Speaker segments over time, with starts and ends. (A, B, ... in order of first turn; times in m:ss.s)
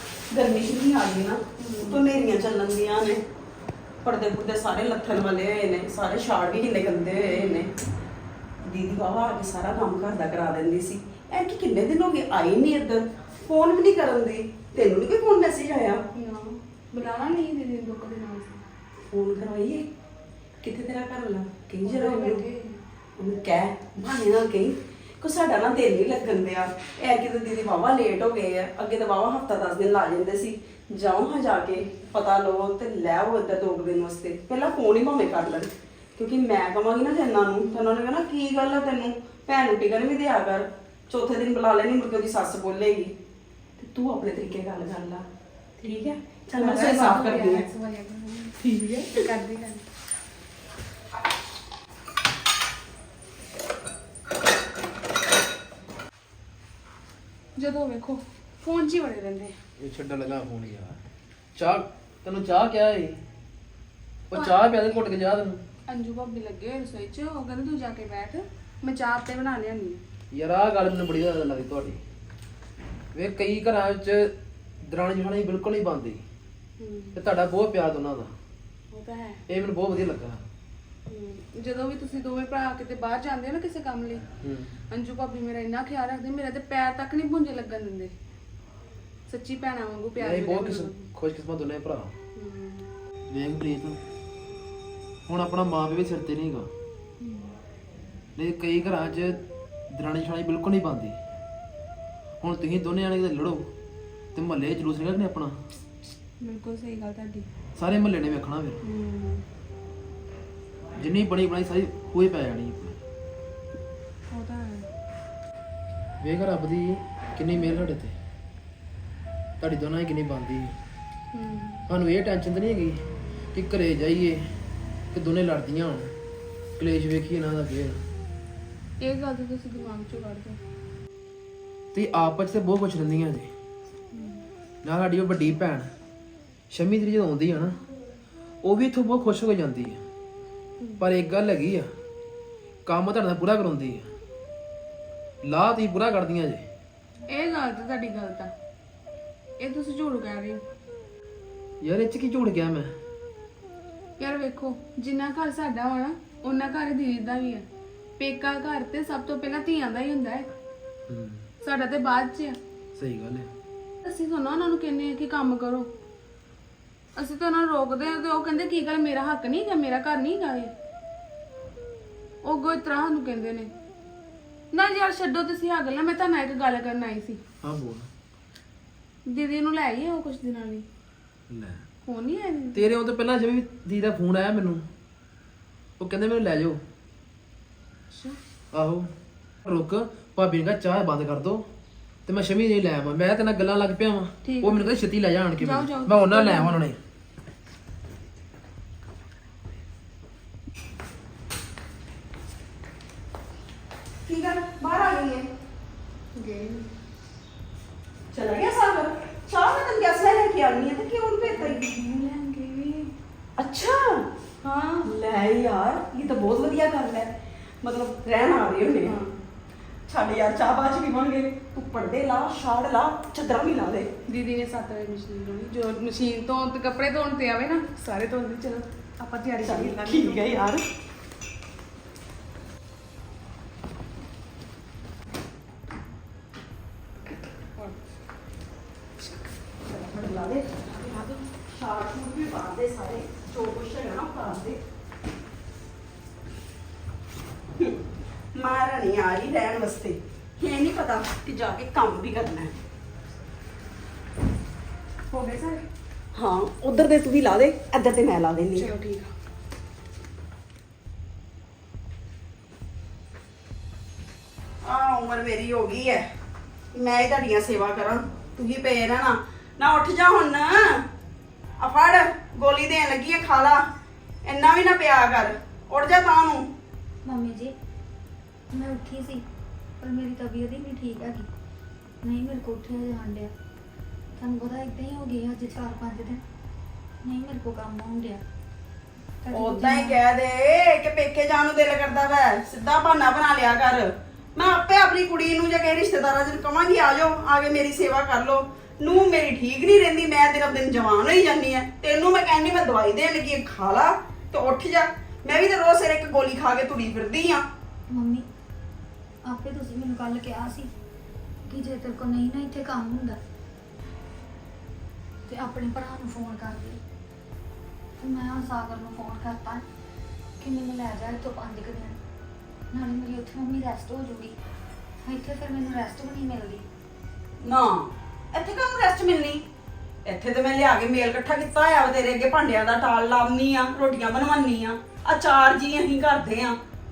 0:00.3-0:03.2 A
0:01.6-0:02.0 B
0:04.0-0:07.7 A
0:08.6-0:16.0 A
0:16.1-0:18.6 B
0:19.1-0:19.9 A
0:20.6-0:22.4 A
0:21.8-0:22.8 B
0:23.2-0:43.2 A
0:37.6-0:37.9 B
0:43.8-0:45.3 A
0:45.8-0:47.6 A
0:46.5-0:49.8 B
0:48.6-0:49.2 A
0:57.6-0:59.5 B
0:59.8-1:01.0 C
1:01.6-1:03.2 C
1:04.3-1:05.6 C
1:04.3-1:04.6 B
1:05.9-1:10.0 B
1:10.3-1:12.0 C
1:13.1-1:16.2 C
1:16.8-1:17.2 B
1:17.1-1:18.3 C
1:18.9-1:19.4 B
1:19.5-1:20.4 C
1:21.1-1:24.2 B
1:24.4-1:24.7 C
1:24.9-1:28.1 B
1:29.3-1:31.1 B
1:30.2-1:32.1 C
1:32.4-1:32.9 B
1:33.3-1:34.0 C
1:35.3-1:36.7 C
1:37.2-1:37.5 B
1:38.4-1:41.2 C
1:42.4-1:43.7 C
1:44.3-1:45.6 C
1:46.4-1:47.5 B
1:47.8-1:48.8 C
1:48.8-1:49.4 B
1:51.0-1:53.0 C
1:54.3-1:54.9 B
1:56.2-1:58.1 C
1:59.6-2:00.8 C
2:01.3-2:01.8 B
2:01.9-2:03.0 C
2:03.5-2:04.5 C
2:05.1-2:06.1 C
2:06.8-2:08.0 C
2:09.0-2:10.6 B
2:11.9-2:13.5 C
2:14.1-2:14.4 B
2:14.8-2:15.9 C
2:16.7-2:17.8 C
2:18.6-2:20.0 C
2:21.0-2:21.9 C
2:22.8-2:24.1 C
2:25.4-2:26.7 C
2:27.3-2:28.5 B
2:29.6-2:30.6 B
2:31.8-2:32.9 C
2:34.2-2:37.6 B
2:38.2-2:40.5 B
2:41.1-2:41.4 C
2:41.6-2:42.6 B
2:43.0-2:43.5 C
2:44.0-2:45.9 B
2:47.2-2:50.7 B
2:52.4-2:53.7 B
2:54.7-2:57.4 B
2:57.6-2:58.1 C
2:59.2-3:00.8 B
3:01.5-3:01.8 C
3:02.0-3:02.8 B
3:02.7-3:04.8 C
3:06.0-3:06.8 C
3:08.1-3:08.4 B
3:08.7-3:09.1 C
3:09.6-3:11.6 C
3:12.2-3:17.0 C
3:14.4-3:15.0 B
3:15.6-3:16.8 B
3:24.2-3:25.5 A
3:26.4-3:26.8 B
3:28.3-3:31.8 A
3:31.4-3:33.1 B
3:33.6-3:34.3 A
3:34.6-3:35.1 B
3:35.0-3:39.2 A
3:39.0-3:39.3 B
3:40.1-3:44.1 A
3:44.3-3:50.8 B
3:49.6-3:50.8 A
3:59.8-4:00.8 A
4:00.8-4:01.4 B
4:01.6-4:04.8 A
4:08.5-4:12.8 A
4:15.3-4:15.8 B
4:16.3-4:18.9 A
4:18.8-4:19.3 B
4:24.8-4:26.3 A
4:26.9-4:31.0 A
4:31.8-4:33.9 A
4:34.4-4:36.7 A
4:37.2-4:37.7 D
4:38.7-4:39.4 D
4:40.0-4:41.5 D
4:42.2-4:43.5 D
4:44.4-4:46.4 D
4:47.2-4:48.4 D
4:49.4-4:50.2 D
4:49.5-5:07.6 A
5:08.1-5:08.4 D
5:09.4-5:10.9 D
5:11.7-5:13.4 D
5:15.4-5:17.0 D
5:18.2-5:19.8 D
5:20.6-5:22.2 D
5:22.9-5:24.6 D
5:25.2-5:26.8 D
5:27.6-5:29.6 A
5:30.2-5:36.8 A